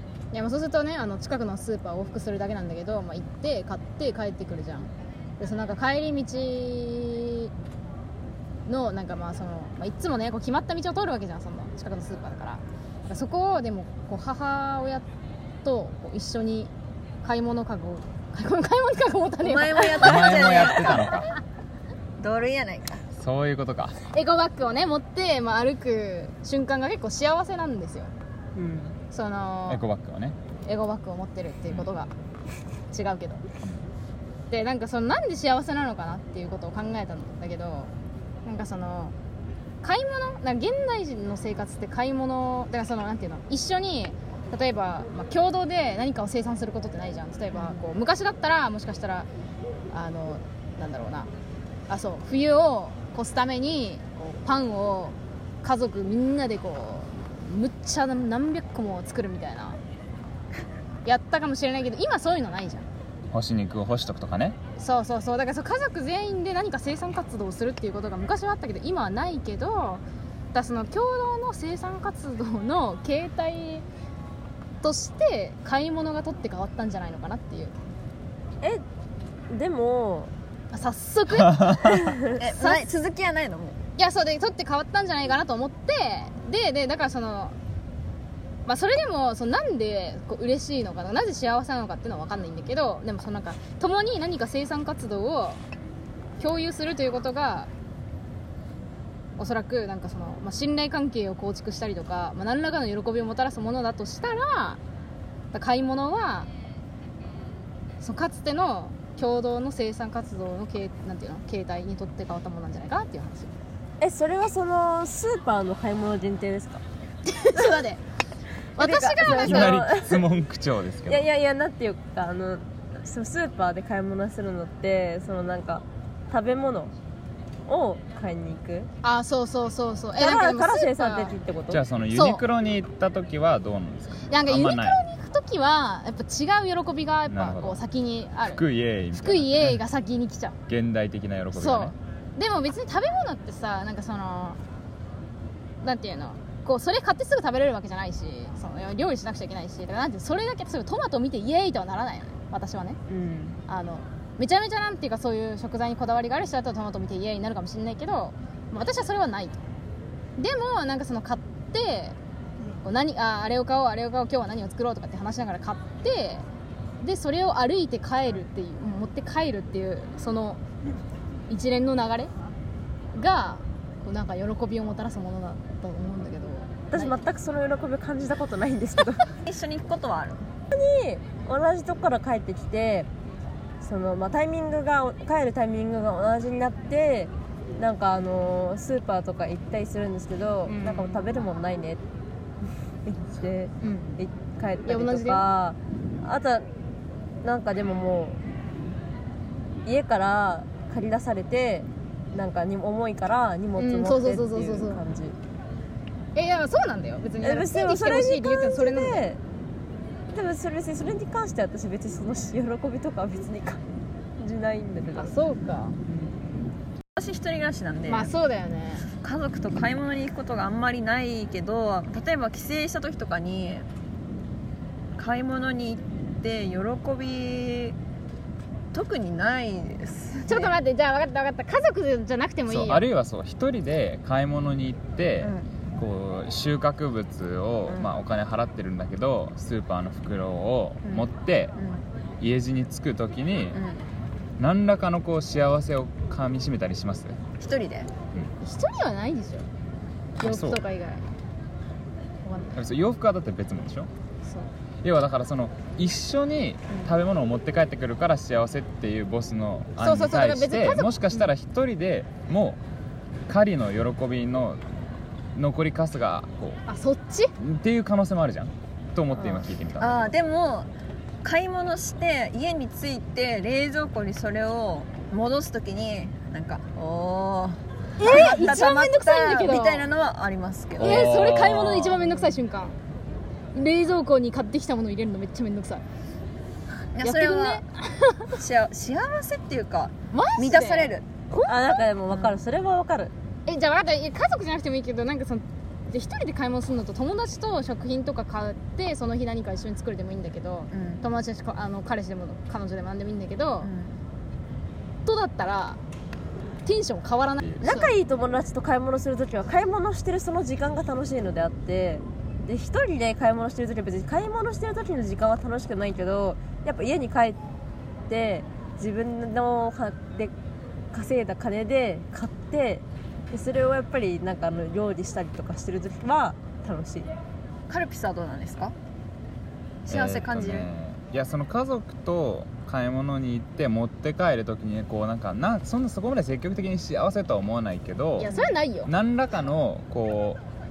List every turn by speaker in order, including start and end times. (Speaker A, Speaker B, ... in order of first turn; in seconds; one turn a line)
Speaker A: 0.3-7.5
Speaker A: 8.7-15.1
Speaker A: 15.6-16.7
Speaker A: 17.2-21.1
Speaker B: 19.4-21.1
Speaker C: 19.9-21.3
Speaker B: 22.2-23.0
Speaker C: 23.1-24.0
Speaker A: 24.1-28.1
Speaker D: 28.6-28.9
Speaker A: 29.1-29.8
Speaker C: 29.7-30.4
Speaker A: 30.6-32.1
Speaker A: 32.9-33.4
Speaker A: 34.5-37.9
Speaker A: 38.4-39.1
Speaker A: 39.8-49.3
Speaker A: 49.9-51.3
Speaker A: 51.9-59.8
Speaker A: 61.0-62.9
Speaker C: 63.3-64.6
Speaker A: 64.8-73.8
Speaker A: 74.8-77.7
Speaker D: 79.5-80.3
Speaker A: 80.7-82.0
Speaker C: 81.5-82.0
Speaker D: 81.9-82.3
Speaker B: 82.3-83.8
Speaker A: 84.0-87.5
Speaker A: 88.7-95.6
Speaker A: 96.4-97.7
Speaker A: 99.4-104.8
Speaker A: 105.5-106.5
Speaker A: 108.0-113.5
Speaker D: 114.0-116.8
Speaker A: 117.3-118.0
Speaker A: 118.8-119.8
Speaker D: 118.8-120.3
Speaker C: 119.2-121.2
Speaker D: 121.1-126.9
Speaker D: 127.7-128.9
Speaker A: 129.0-131.3
Speaker D: 130.2-131.9
Speaker C: 131.7-135.0
Speaker A: 132.1-132.4
Speaker A: 134.3-138.6
Speaker C: 137.3-137.8
Speaker C: 138.4-139.8
Speaker A: 139.1-140.6
Speaker C: 140.7-141.9
Speaker A: 141.5-144.6
Speaker A: 145.8-153.0
Speaker D: 153.1-153.6
Speaker A: 153.7-159.6
Speaker A: 160.4-162.2
Speaker A: 162.8-166.4
Speaker A: 167.0-170.6
Speaker A: 171.5-172.3
Speaker A: 173.1-177.2
Speaker D: 176.9-179.2
Speaker B: 179.4-180.4
Speaker D: 180.7-183.1
Speaker D: 183.8-192.0
Speaker A: 190.7-191.2
Speaker D: 193.0-196.7
Speaker A: 193.8-194.2
Speaker A: 194.8-195.4
Speaker D: 197.4-198.4
Speaker D: 199.8-205.4
Speaker A: 203.8-205.0
Speaker A: 206.3-209.2
Speaker D: 207.4-209.4
Speaker D: 210.3-213.8
Speaker D: 214.4-215.3
Speaker A: 215.1-215.9
Speaker B: 217.2-218.3
Speaker A: 218.1-219.1
Speaker B: 219.2-223.8
Speaker B: 225.2-227.9
Speaker B: 228.9-230.8
Speaker A: 230.4-233.1
Speaker C: 232.7-241.7
Speaker B: 235.4-235.7
Speaker B: 237.9-238.1
Speaker B: 241.0-242.0
Speaker C: 242.4-243.8
Speaker B: 243.7-244.0
Speaker C: 244.6-247.4
Speaker B: 247.6-248.1
Speaker A: 248.6-249.7
Speaker A: 250.4-251.2
Speaker C: 250.4-250.8
Speaker A: 252.4-252.8
Speaker C: 252.7-254.1
Speaker A: 254.4-254.7
Speaker C: 255.0-262.8
Speaker A: 260.0-261.1
Speaker C: 263.5-264.9
Speaker C: 265.6-266.8
Speaker A: 266.9-267.5
Speaker C: 267.6-270.3
Speaker B: 269.4-270.9
Speaker B: 271.4-281.3
Speaker A: 278.2-280.1
Speaker C: 281.0-282.3
Speaker A: 281.0-282.9
Speaker A: 283.7-286.0
Speaker B: 287.1-287.8
Speaker A: 287.2-288.5
Speaker B: 288.5-291.3
Speaker A: 290.3-292.0
Speaker D: 291.6-293.3
Speaker B: 292.3-292.6
Speaker A: 293.7-303.9
Speaker B: 300.9-301.2
Speaker B: 303.8-304.1
Speaker A: 305.2-306.0
Speaker A: 306.8-308.1
Speaker D: 307.8-317.6
Speaker D: 318.3-320.5
Speaker D: 321.1-327.3
Speaker B: 327.9-328.9
Speaker B: 330.1-330.9
Speaker C: 330.1-338.5
Speaker A: 338.4-339.1
Speaker C: 339.0-340.6